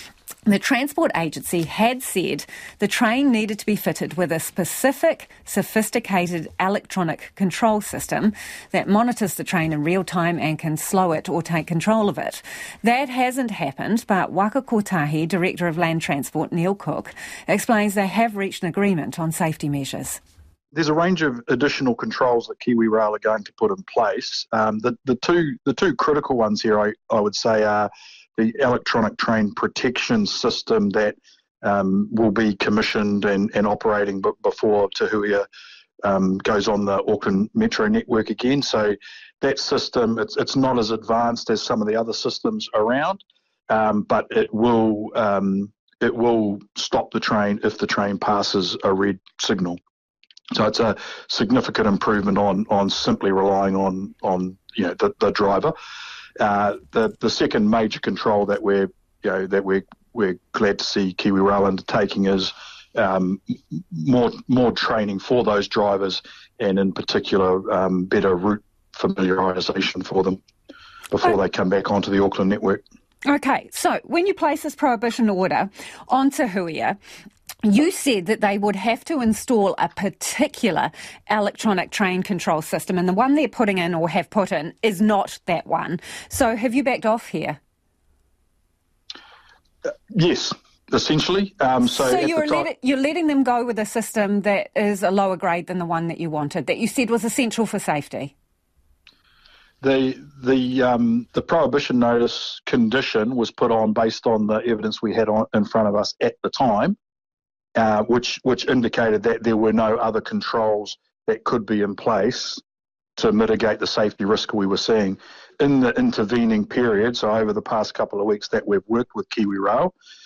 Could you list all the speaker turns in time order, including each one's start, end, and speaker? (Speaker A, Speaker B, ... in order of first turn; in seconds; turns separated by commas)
Speaker A: 0.5-20.2, Speaker B: 20.7-35.5, Speaker B: 36.0-49.8, Speaker B: 50.5-55.7, Speaker B: 56.4-70.4, Speaker B: 71.1-72.8, Speaker A: 73.3-77.0, Speaker A: 77.6-87.6, Speaker B: 90.1-92.7, Speaker A: 91.8-98.3, Speaker B: 99.8-107.0, Speaker B: 107.8-112.6, Speaker B: 113.2-119.9